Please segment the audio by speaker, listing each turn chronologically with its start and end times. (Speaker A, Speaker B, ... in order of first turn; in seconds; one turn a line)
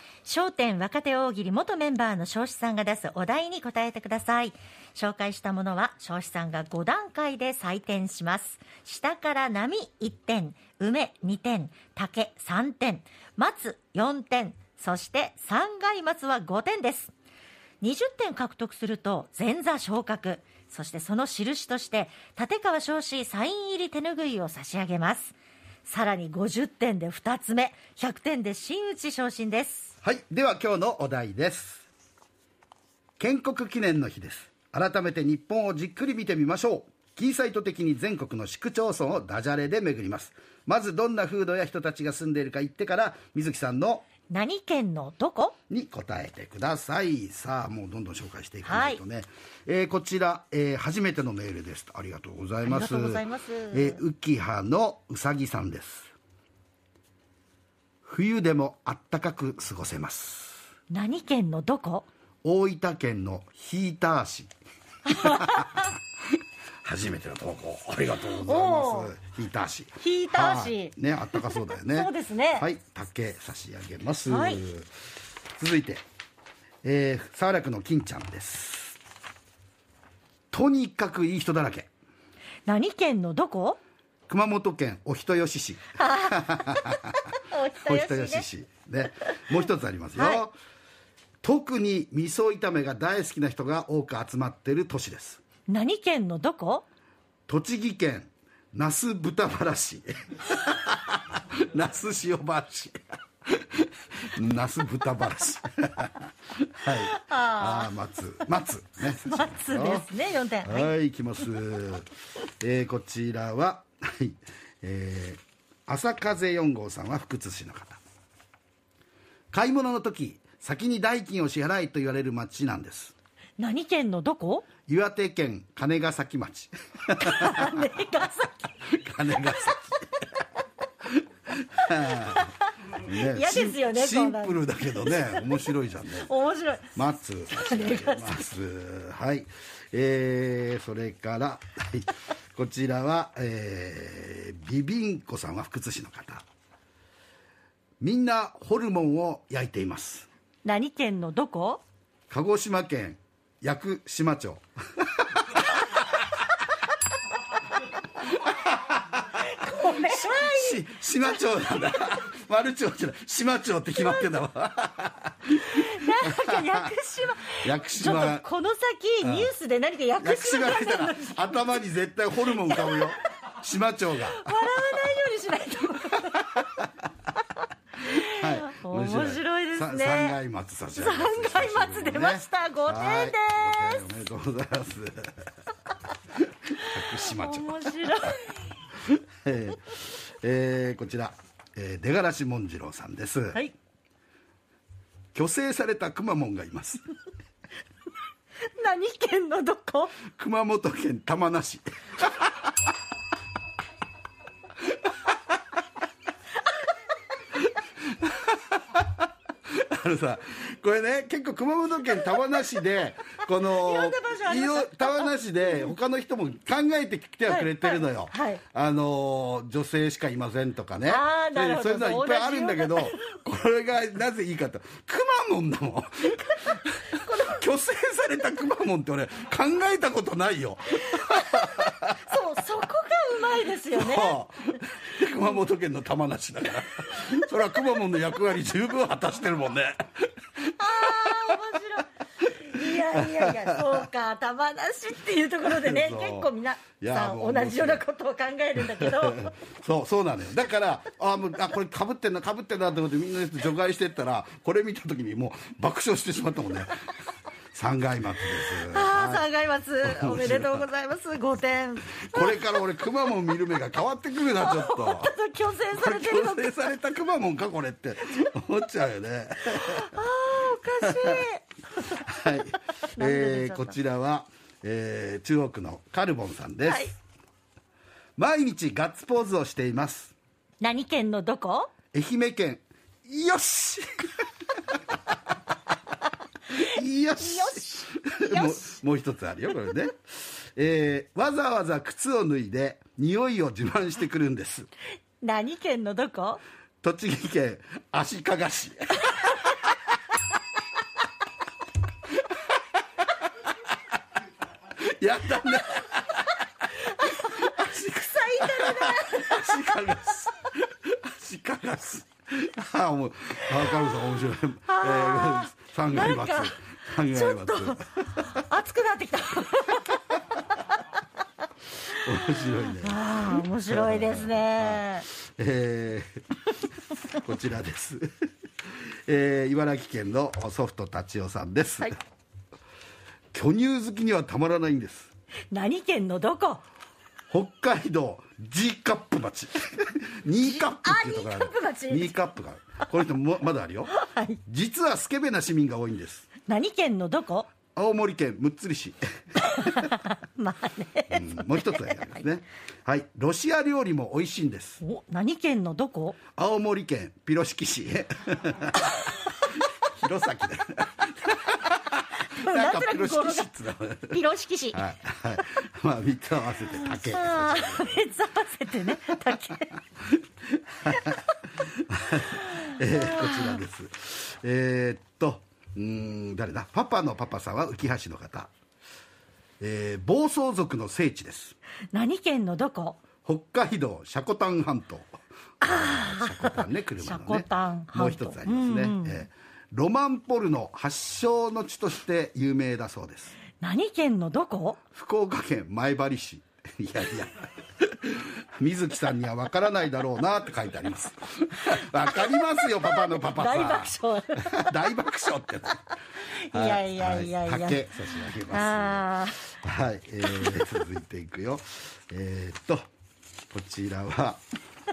Speaker A: 0.2-17.1
Speaker A: 17.8-25.4
Speaker A: 25.9-29.9
Speaker B: 30.0-31.9
Speaker B: 33.2-44.1
Speaker A: 44.3-45.5
Speaker B: 45.7-56.1
Speaker A: 48.6-49.0
Speaker A: 52.6-54.0
Speaker B: 58.0-60.6
Speaker A: 60.9-62.1
Speaker B: 62.4-64.5
Speaker B: 65.1-65.8
Speaker A: 65.1-65.8
Speaker B: 66.8-74.9
Speaker A: 68.4-69.1
Speaker A: 70.0-72.7
Speaker A: 74.3-74.6
Speaker B: 75.6-76.0
Speaker B: 76.8-79.0
Speaker B: 80.5-81.9
Speaker A: 82.7-83.8
Speaker B: 84.3-87.2
Speaker A: 86.0-88.5
Speaker B: 87.8-90.6
Speaker A: 90.2-90.4
Speaker B: 91.4-95.4
Speaker A: 95.7-96.8
Speaker B: 97.5-110.1
Speaker A: 106.9-107.9
Speaker A: 109.1-110.9
Speaker B: 110.6-118.0
Speaker B: 119.5-123.2
Speaker A: 123.6-124.7
Speaker B: 124.9-127.9
Speaker A: 127.2-128.7
Speaker B: 128.8-130.2
Speaker B: 131.1-136.3
Speaker A: 132.1-132.5
Speaker A: 133.1-135.6
Speaker A: 136.1-136.9
Speaker B: 136.9-146.4
Speaker A: 137.5-138.4
Speaker B: 148.0-150.3
Speaker A: 150.7-151.8
Speaker B: 152.3-156.2
Speaker B: 158.2-166.9
Speaker A: 159.3-160.8
Speaker A: 164.0-164.3
Speaker A: 165.7-171.8
Speaker B: 167.6-168.4
Speaker B: 169.2-169.5
Speaker B: 170.2-174.6
Speaker A: 172.6-173.2
Speaker A: 174.2-176.6
Speaker A: 178.1-180.4
Speaker B: 178.1-185.4
Speaker A: 180.9-184.0
Speaker B: 186.7-188.1
Speaker A: 186.9-188.8
Speaker B: 189.0-193.6
Speaker B: 195.3-197.1
Speaker A: 198.8-200.2
Speaker B: 200.3-202.7
Speaker B: 208.1-209.2
Speaker B: 209.7-232.2
Speaker A: 213.7-215.3
Speaker A: 217.5-218.6
Speaker A: 221.1-223.2
Speaker A: 227.2-227.6
Speaker A: 231.1-234.4
Speaker B: 233.9-240.1
Speaker B: 240.6-241.6
Speaker A: 240.8-249.5
Speaker B: 242.5-244.1
Speaker B: 245.7-248.1
Speaker B: 248.8-257.1
Speaker B: 257.7-259.4
Speaker A: 258.5-262.6
Speaker B: 260.0-260.8
Speaker B: 262.1-265.3
Speaker A: 264.6-266.8
Speaker B: 265.9-270.1
Speaker A: 269.7-271.6
Speaker B: 271.1-271.4
Speaker B: 272.1-277.1
Speaker A: 273.1-273.9
Speaker B: 278.4-280.3
Speaker A: 280.8-281.9
Speaker B: 282.1-284.1
Speaker B: 286.8-294.9
Speaker A: 287.4-289.0
Speaker A: 295.4-296.6
Speaker B: 297.0-299.6
Speaker B: 304.9-306.4
Speaker A: 306.9-310.1
Speaker B: 307.3-308.1
Speaker B: 308.6-318.6
Speaker A: 313.9-314.2
Speaker A: 314.9-320.4
Speaker B: 322.1-323.3
Speaker A: 322.2-325.3
Speaker B: 323.9-326.4
Speaker B: 327.3-328.3
Speaker B: 329.3-332.1
Speaker B: 333.5-335.3
Speaker A: 335.7-336.8
Speaker B: 337.5-344.1
Speaker A: 340.6-342.4
Speaker A: 344.1-344.6
Speaker B: 344.7-346.5
Speaker A: 346.7-347.7
Speaker B: 347.9-350.1
Speaker A: 349.8-352.4
Speaker B: 351.3-355.0
Speaker A: 355.0-356.4
Speaker B: 356.6-359.5
Speaker B: 360.0-364.4
Speaker A: 362.5-363.7
Speaker A: 364.3-365.0
Speaker B: 364.9-368.1
Speaker A: 366.9-369.9
Speaker B: 370.2-378.7
Speaker A: 371.1-371.4
Speaker A: 372.9-373.8
Speaker B: 379.8-381.8
Speaker A: 382.1-383.2
Speaker B: 383.4-393.6
Speaker A: 385.8-389.4
Speaker A: 393.8-395.0
Speaker B: 395.1-406.0
Speaker A: 402.2-404.9
Speaker A: 406.4-409.7
Speaker B: 406.7-413.1
Speaker A: 410.5-410.8
Speaker B: 413.7-414.6